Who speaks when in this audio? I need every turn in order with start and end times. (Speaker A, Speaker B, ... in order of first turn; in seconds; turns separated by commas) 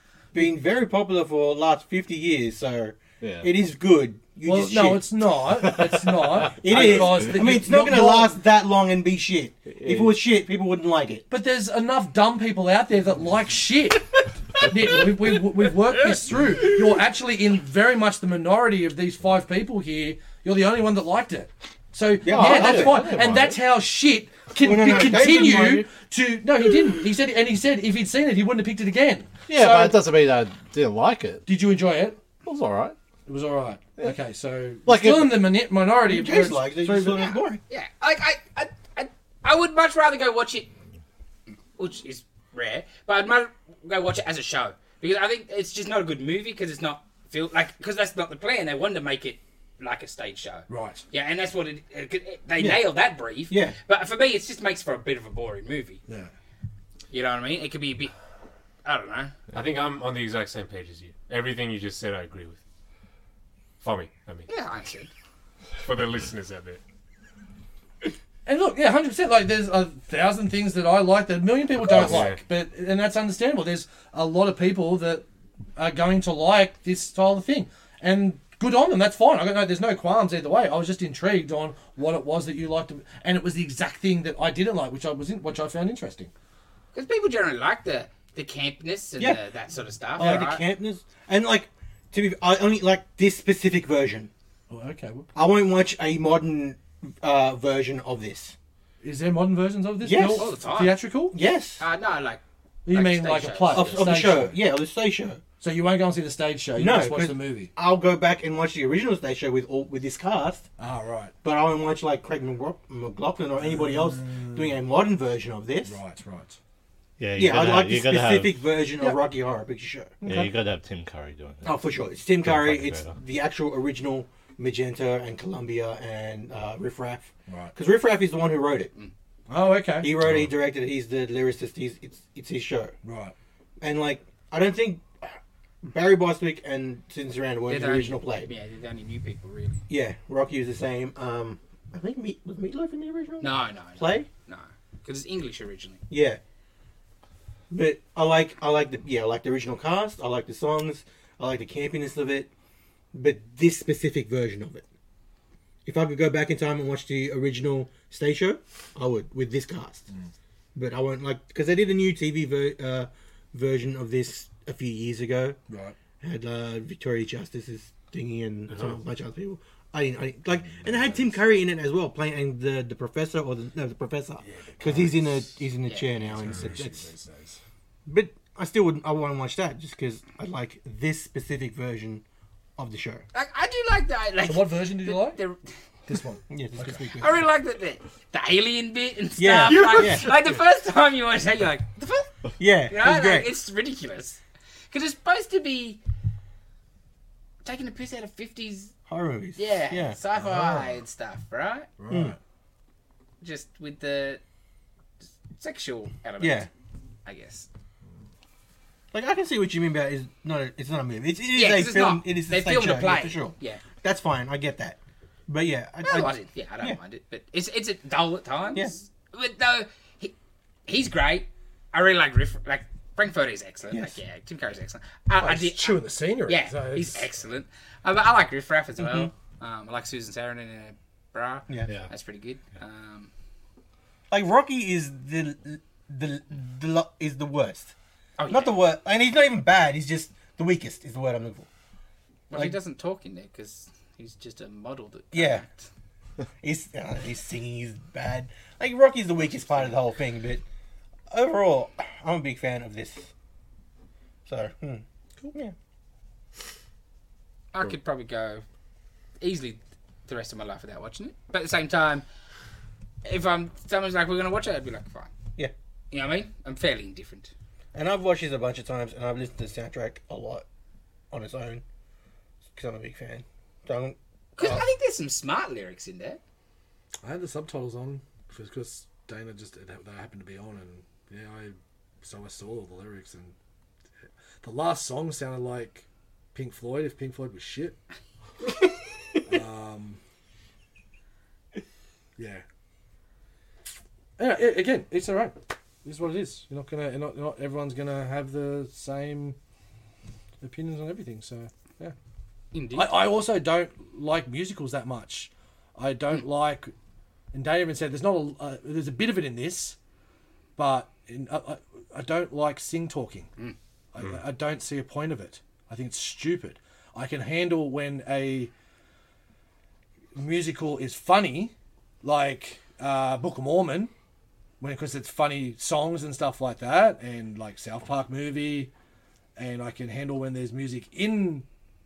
Speaker A: 0.3-5.1, Speaker B: 3.2-3.5, Speaker C: 4.5-8.4, Speaker B: 5.6-7.1, Speaker A: 6.4-11.2, Speaker B: 9.7-10.1, Speaker C: 11.3-30.0, Speaker A: 22.2-23.2, Speaker B: 22.2-23.6, Speaker A: 24.6-25.9, Speaker B: 29.5-31.5, Speaker C: 31.5-32.2, Speaker B: 32.4-33.0, Speaker C: 33.2-37.3, Speaker B: 34.9-35.5, Speaker A: 36.0-37.6, Speaker D: 37.3-40.7, Speaker D: 41.8-56.0, Speaker C: 50.7-51.0, Speaker A: 52.6-52.9, Speaker A: 53.5-53.8, Speaker D: 57.1-58.1, Speaker D: 58.8-59.3, Speaker E: 59.5-62.6, Speaker E: 63.8-64.5, Speaker D: 64.5-65.1, Speaker E: 65.8-66.8, Speaker C: 68.5-86.3, Speaker E: 71.9-72.4, Speaker D: 86.9-90.6, Speaker A: 90.2-94.3, Speaker C: 90.2-90.5, Speaker C: 94.7-95.3, Speaker A: 95.3-98.5, Speaker C: 99.0-101.3, Speaker A: 100.0-100.6, Speaker D: 100.3-101.0, Speaker A: 101.3-101.8, Speaker D: 101.8-104.2, Speaker C: 102.8-104.6, Speaker A: 103.7-105.4, Speaker C: 105.6-107.7, Speaker A: 106.8-110.7, Speaker C: 110.8-111.3, Speaker A: 111.4-116.0, Speaker C: 113.6-114.8, Speaker C: 115.8-116.6, Speaker B: 117.2-118.6, Speaker A: 117.3-120.2, Speaker C: 120.2-120.5, Speaker B: 120.2-121.8, Speaker A: 121.6-128.9, Speaker B: 122.4-123.2, Speaker C: 127.5-127.7, Speaker C: 129.5-130.1, Speaker A: 130.0-132.9, Speaker B: 130.2-130.5, Speaker C: 133.0-133.3, Speaker A: 133.8-138.5, Speaker D: 137.7-139.8, Speaker A: 139.9-144.3, Speaker D: 143.4-146.0, Speaker A: 146.1-146.4, Speaker A: 147.7-152.5, Speaker A: 153.1-154.8, Speaker A: 155.8-160.1, Speaker A: 160.7-165.6, Speaker C: 165.7-166.0, Speaker A: 166.2-177.0, Speaker C: 170.8-171.3, Speaker C: 174.4-175.3, Speaker D: 175.8-176.2, Speaker C: 176.2-177.6, Speaker A: 178.1-182.2, Speaker A: 182.8-183.2, Speaker D: 183.3-185.6, Speaker C: 184.5-185.4, Speaker C: 186.1-187.0, Speaker A: 186.5-187.4, Speaker D: 187.2-196.0, Speaker A: 189.4-190.3, Speaker E: 189.8-190.3, Speaker A: 192.6-193.5, Speaker D: 197.6-198.9, Speaker A: 199.1-200.2, Speaker D: 199.6-201.9, Speaker C: 200.3-200.9, Speaker C: 202.0-202.4, Speaker A: 202.1-202.3, Speaker D: 203.4-204.4, Speaker D: 205.5-206.7, Speaker A: 206.4-206.7, Speaker D: 207.2-207.7, Speaker A: 209.1-217.0, Speaker D: 211.5-213.8, Speaker D: 216.0-220.3, Speaker D: 220.9-233.3, Speaker A: 223.9-224.2, Speaker C: 225.4-227.3, Speaker A: 229.0-229.3, Speaker A: 234.3-237.9, Speaker D: 238.4-238.8, Speaker A: 238.5-241.7, Speaker A: 242.5-242.8, Speaker D: 242.5-245.9, Speaker A: 245.3-245.6, Speaker A: 246.6-250.6, Speaker A: 251.3-253.3, Speaker A: 254.4-255.7, Speaker D: 257.7-258.6, Speaker D: 259.4-262.2, Speaker D: 263.2-265.3, Speaker D: 266.1-267.5, Speaker A: 267.9-270.6, Speaker A: 271.3-271.8, Speaker A: 272.7-274.8, Speaker D: 274.6-276.4, Speaker C: 277.2-283.5, Speaker C: 284.6-288.0, Speaker C: 289.4-290.2, Speaker C: 292.4-292.6, Speaker C: 294.4-299.6, Speaker C: 300.6-302.1, Speaker D: 302.7-303.1, Speaker C: 302.9-306.9, Speaker C: 307.5-310.0, Speaker C: 310.8-313.5, Speaker C: 314.1-318.7, Speaker C: 320.3-324.1, Speaker C: 324.8-328.9, Speaker C: 329.6-331.6